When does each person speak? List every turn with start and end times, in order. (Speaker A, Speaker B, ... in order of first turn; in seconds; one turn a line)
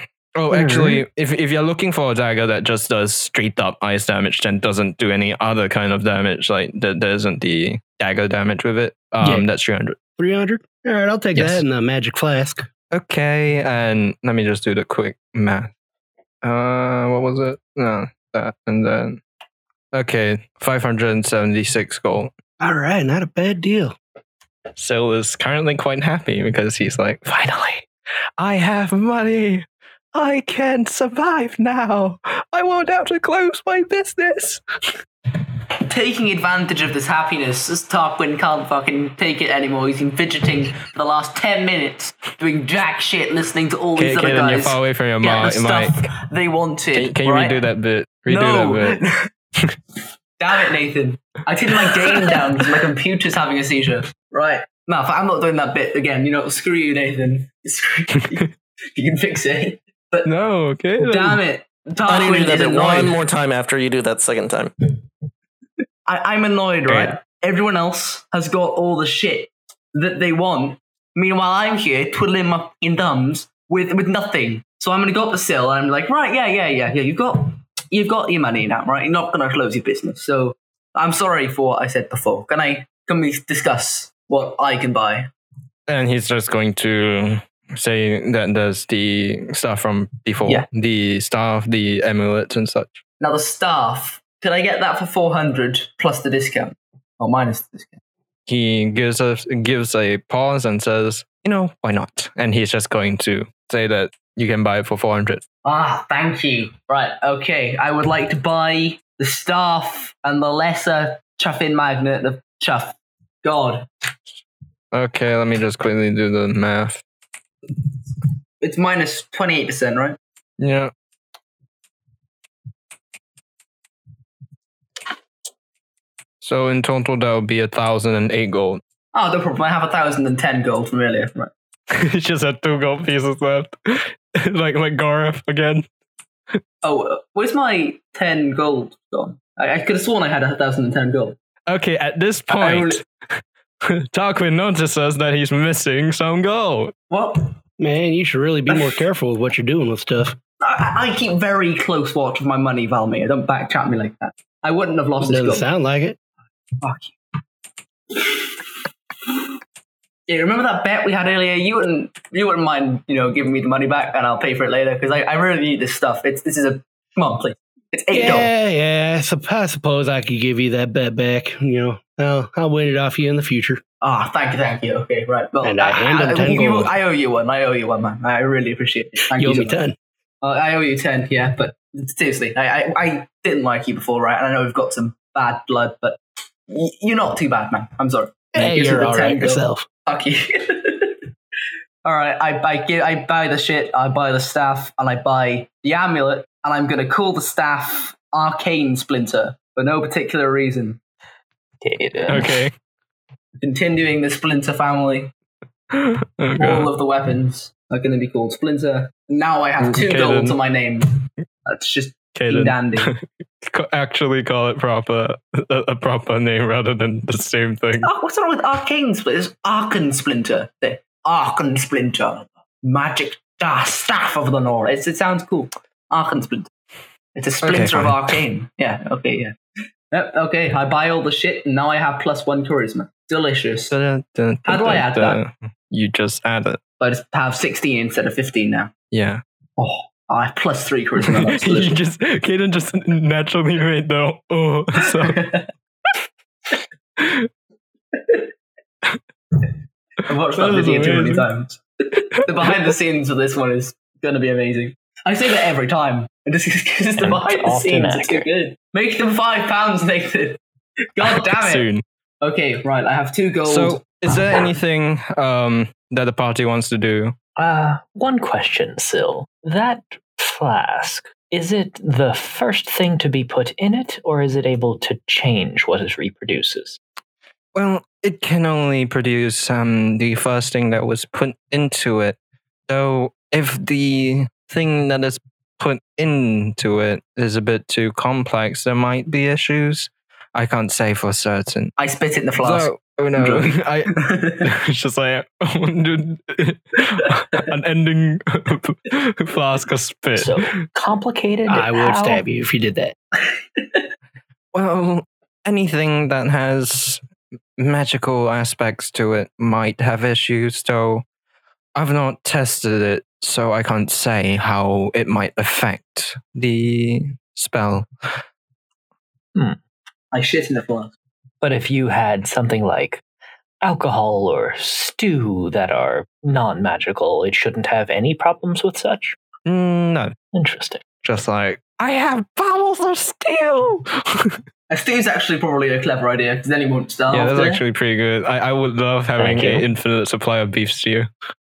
Speaker A: 0.3-10.0
Speaker B: 0.5-1.0
Speaker B: 9.2-9.4
Speaker B: 10.2-12.7
Speaker A: 11.3-11.6
Speaker A: 12.9-15.7
Speaker A: 16.4-19.2
Speaker A: 19.9-22.3
Speaker B: 22.6-23.9
Speaker A: 24.8-34.6
Speaker C: 35.9-47.6
Speaker A: 43.9-46.0
Speaker A: 46.9-49.8
Speaker C: 48.3-49.2
Speaker C: 50.4-60.3
Speaker A: 51.7-52.6
Speaker A: 60.2-61.4
Speaker C: 61.0-63.2
Speaker D: 62.1-64.7
Speaker C: 66.0-85.3
Speaker A: 66.9-67.1
Speaker A: 85.9-93.0
Speaker C: 93.2-98.0
Speaker A: 98.5-105.4
Speaker C: 105.6-113.9
Speaker A: 114.9-117.0
Speaker C: 118.6-120.2
Speaker A: 120.6-120.9
Speaker A: 126.4-128.8
Speaker C: 129.1-131.5
Speaker A: 131.9-135.8
Speaker C: 136.8-141.3
Speaker A: 141.7-143.0
Speaker C: 142.5-143.0
Speaker A: 143.8-146.9
Speaker C: 147.1-147.6
Speaker B: 147.8-150.4
Speaker C: 148.7-149.0
Speaker C: 150.6-155.7
Speaker B: 155.2-156.2
Speaker C: 156.8-157.2
Speaker C: 158.1-158.5
Speaker C: 160.3-168.5
Speaker B: 168.1-173.8
Speaker C: 174.0-179.8
Speaker B: 175.6-176.9
Speaker B: 179.3-180.0
Speaker C: 180.4-191.2
Speaker B: 188.5-189.9
Speaker C: 192.0-201.0
Speaker E: 201.8-202.6
Speaker A: 202.3-202.7
Speaker C: 203.6-205.3
Speaker A: 205.9-206.9
Speaker C: 206.6-213.1
Speaker A: 209.8-210.6
Speaker A: 212.3-218.1
Speaker C: 218.0-226.7
Speaker C: 227.3-229.6
Speaker A: 227.6-228.4
Speaker C: 230.1-233.9
Speaker A: 233.9-236.8
Speaker C: 234.7-235.4
Speaker C: 237.0-238.9
Speaker A: 239.1-239.4
Speaker C: 239.8-241.9
Speaker A: 241.2-245.4
Speaker C: 245.0-245.7
Speaker A: 247.2-247.5
Speaker C: 248.1-248.4
Speaker C: 250.2-260.6
Speaker A: 250.6-251.4
Speaker E: 257.2-258.5
Speaker C: 261.1-261.9
Speaker A: 261.2-262.0
Speaker C: 262.4-264.6
Speaker A: 263.6-267.3
Speaker E: 267.6-277.0
Speaker A: 277.7-282.4
Speaker A: 282.9-291.9
Speaker C: 292.0-294.7
Speaker A: 292.6-300.7
Speaker E: 300.4-302.4
Speaker B: 301.7-303.1
Speaker C: 303.5-304.0
Speaker A: 304.7-307.2
Speaker A: 307.8-311.2
Speaker A: 311.9-318.1
Speaker C: 320.3-321.1
Speaker E: 321.6-323.2
Speaker E: 323.8-329.4
Speaker A: 329.6-330.3
Speaker E: 330.5-331.0
Speaker A: 331.2-334.6
Speaker C: 334.9-337.8
Speaker A: 337.3-341.3
Speaker E: 339.4-339.9